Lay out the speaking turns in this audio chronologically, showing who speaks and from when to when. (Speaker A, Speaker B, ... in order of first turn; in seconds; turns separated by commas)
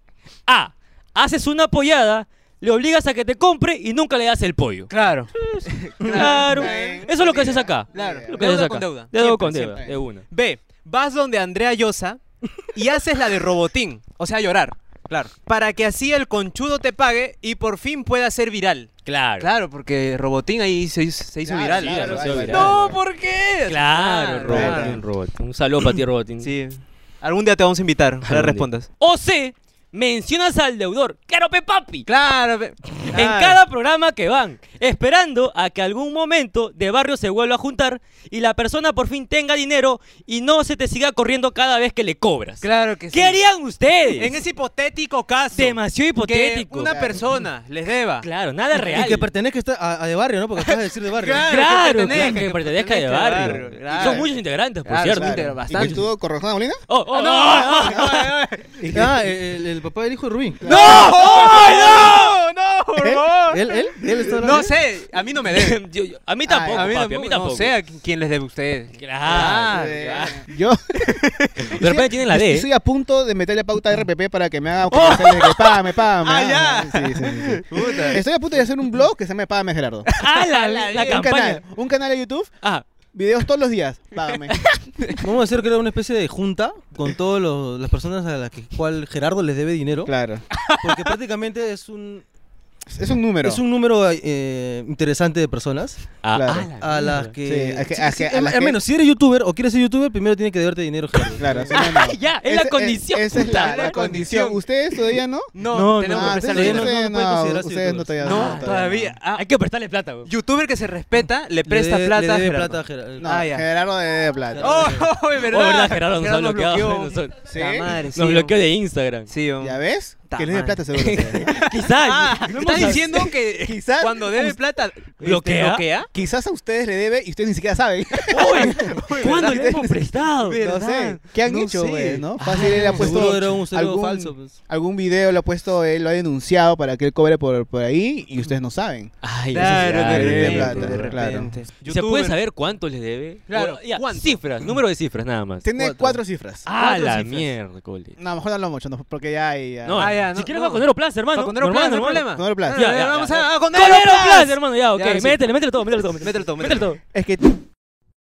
Speaker A: 0.5-10.2, Speaker B: 4.9-7.0, Speaker C: 6.2-8.5, Speaker B: 7.9-25.0, Speaker A: 19.1-19.5, Speaker C: 21.4-23.0, Speaker A: 21.7-22.8, Speaker A: 23.7-26.5, Speaker C: 24.5-25.0, Speaker B: 26.4-28.9, Speaker A: 28.2-32.1, Speaker B: 32.0-33.6, Speaker A: 33.1-44.4, Speaker B: 42.6-43.4, Speaker B: 44.1-48.3, Speaker A: 45.5-47.0, Speaker C: 46.9-47.2, Speaker A: 48.2-49.3, Speaker D: 48.8-51.5, Speaker B: 50.6-54.3, Speaker A: 51.4-56.0, Speaker C: 53.5-54.3, Speaker B: 54.8-56.0, Speaker C: 55.1-56.8, Speaker A: 56.9-58.3, Speaker B: 57.1-58.8, Speaker C: 58.8-59.1, Speaker D: 58.9-60.6, Speaker C: 60.6-61.1, Speaker B: 60.6-65.8, Speaker A: 60.6-62.4, Speaker C: 63.0-63.2, Speaker D: 63.5-64.7, Speaker A: 65.5-67.7, Speaker C: 66.5-66.9, Speaker B: 66.7-70.4, Speaker A: 69.0-70.4, Speaker C: 69.3-71.0, Speaker B: 71.0-71.8, Speaker A: 71.7-72.7, Speaker C: 71.7-80.1, Speaker B: 74.9-78.2, Speaker A: 75.1-75.4, Speaker B: 80.1-81.3, Speaker A: 80.2-81.6, Speaker C: 81.0-82.5, Speaker C: 83.1-84.6, Speaker B: 84.2-85.2, Speaker D: 85.2-90.1, Speaker C: 90.0-90.4, Speaker B: 90.5-91.1, Speaker D: 90.7-92.2, Speaker C: 92.9-93.6, Speaker D: 93.4-96.1, Speaker A: 96.2-97.3, Speaker C: 96.3-96.7, Speaker D: 96.8-101.8, Speaker C: 97.4-98.8, Speaker C: 101.4-109.1, Speaker A: 101.7-104.0, Speaker B: 103.4-104.6, Speaker B: 105.5-106.9, Speaker A: 105.6-106.9, Speaker D: 106.5-108.8, Speaker B: 108.2-109.4, Speaker A: 108.3-108.7, Speaker A: 109.3-110.3, Speaker B: 110.2-113.7, Speaker D: 111.6-113.3, Speaker C: 113.2-115.0, Speaker D: 114.5-115.1, Speaker B: 114.6-118.5, Speaker A: 115.4-117.5, Speaker C: 117.5-117.9, Speaker A: 118.1-119.3, Speaker B: 119.3-126.1, Speaker C: 119.6-121.5, Speaker A: 120.9-123.3, Speaker C: 122.8-124.6, Speaker A: 125.2-125.8, Speaker C: 126.1-129.9, Speaker B: 128.2-133.3, Speaker A: 128.3-130.6, Speaker C: 130.6-141.5, Speaker A: 132.4-133.2, Speaker D: 132.6-134.6, Speaker A: 139.2-141.1, Speaker B: 139.5-142.4, Speaker D: 140.7-141.4, Speaker A: 141.8-145.7, Speaker B: 143.5-144.4, Speaker C: 145.6-146.7, Speaker D: 145.8-146.2, Speaker A: 146.7-148.2, Speaker B: 146.7-147.5, Speaker C: 148.2-150.1, Speaker A: 149.8-157.0, Speaker B: 150.0-155.4, Speaker C: 152.3-152.8, Speaker B: 156.2-156.9, Speaker C: 157.1-157.5